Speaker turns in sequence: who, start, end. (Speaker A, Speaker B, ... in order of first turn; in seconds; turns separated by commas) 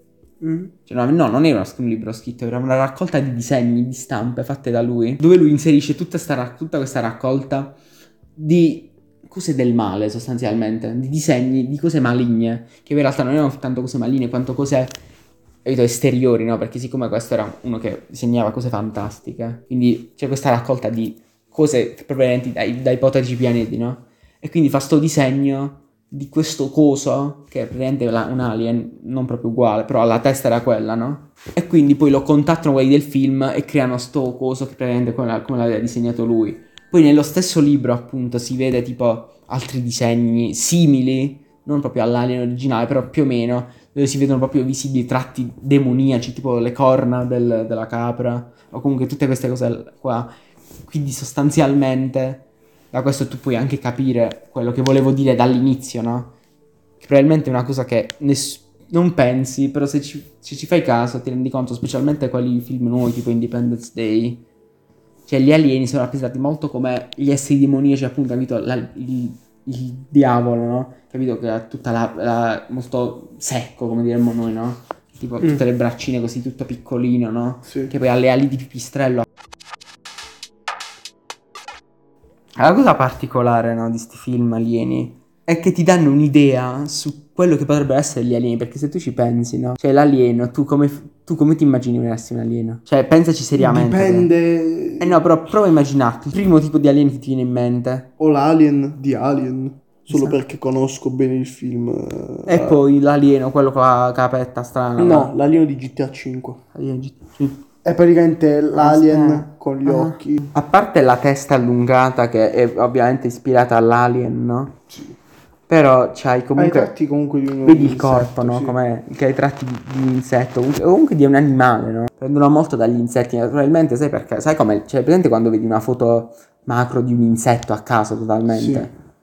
Speaker A: 0.4-0.7, Speaker B: 0.9-7.8, Speaker B: 8.4-15.0, Speaker B: 15.6-50.3, Speaker B: 50.9-56.3, Speaker B: 57.0-64.5, Speaker B: 65.3-79.3, Speaker A: 77.7-77.9, Speaker B: 82.6-94.3, Speaker A: 93.6-95.2, Speaker B: 95.0-98.1, Speaker A: 98.2-102.8, Speaker B: 100.1-100.4, Speaker B: 102.5-105.3, Speaker A: 105.0-106.6, Speaker B: 106.7-107.6, Speaker A: 107.8-110.5, Speaker B: 108.8-114.8, Speaker A: 114.9-115.2, Speaker B: 115.7-116.9, Speaker A: 116.6-118.8, Speaker B: 117.6-128.9, Speaker A: 128.5-128.9